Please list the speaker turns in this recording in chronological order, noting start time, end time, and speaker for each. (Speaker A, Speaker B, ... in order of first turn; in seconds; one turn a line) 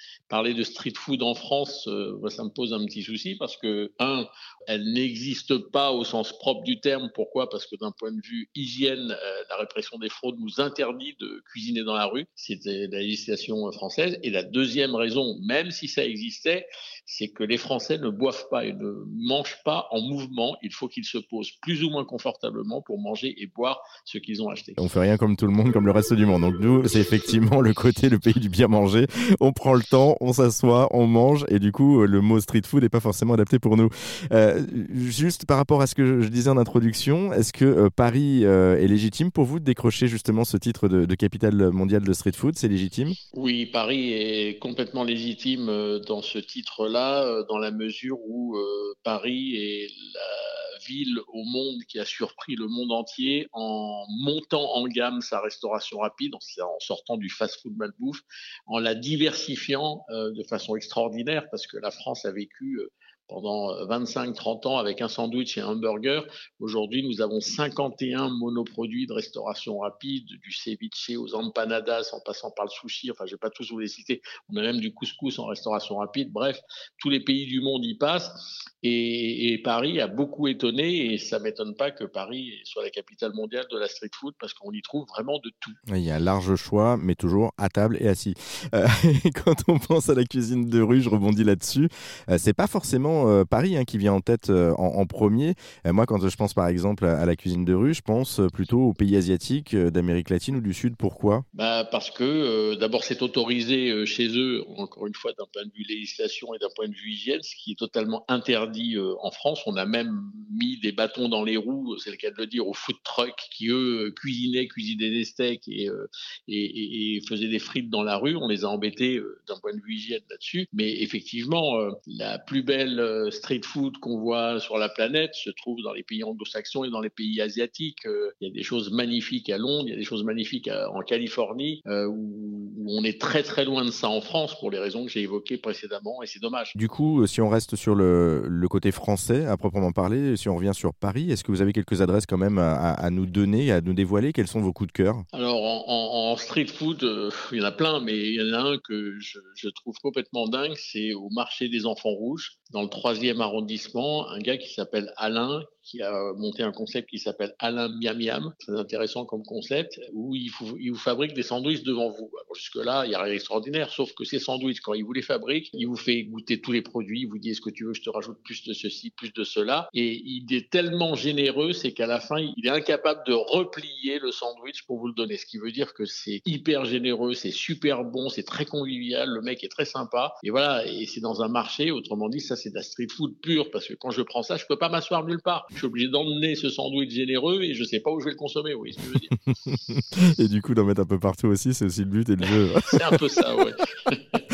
Speaker A: 0.3-24.8
Speaker B: 24.8-43.2
Speaker A: 43.3-85.8
Speaker B: 85.9-101.5
Speaker A: 101.5-136.8
Speaker B: 136.8-145.2
Speaker A: 145.3-189.3
Speaker B: 189.7-193.2
Speaker A: 192.8-194.4